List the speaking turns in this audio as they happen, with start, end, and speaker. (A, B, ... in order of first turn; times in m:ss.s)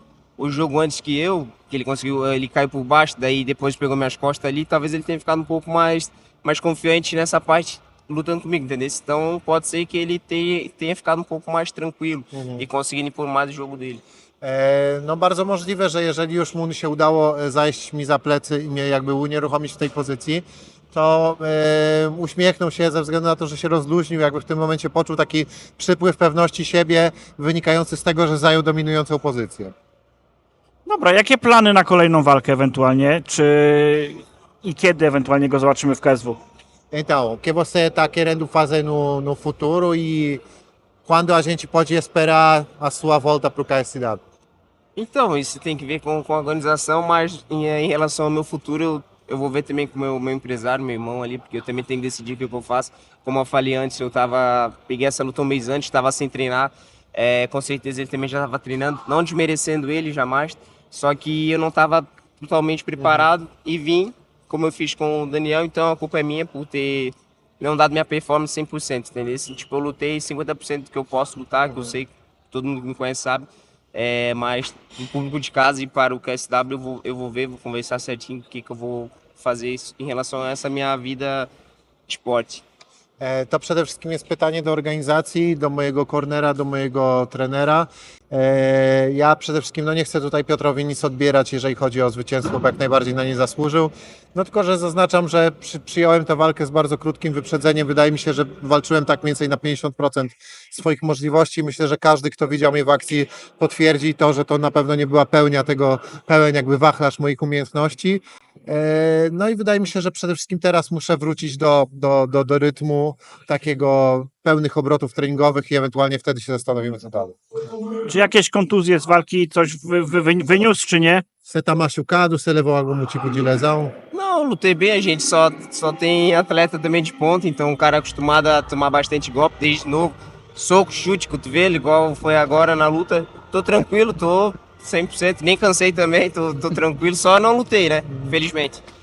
0:00.4-0:14.0 A
0:12.3-0:12.7 B
0:14.4-0:29.7 B
0:30.9-0:36.4 C
0:36.9-0:40.4 B
0:41.0-0:44.2 B
0:45.0-1:21.5 A
1:03.0-1:03.3 B
1:22.1-1:22.6 A
1:23.2-1:57.4 B
1:58.1-2:01.2 C
2:01.4-2:03.9 B
2:04.1-2:18.8 A
2:18.1-2:18.4 B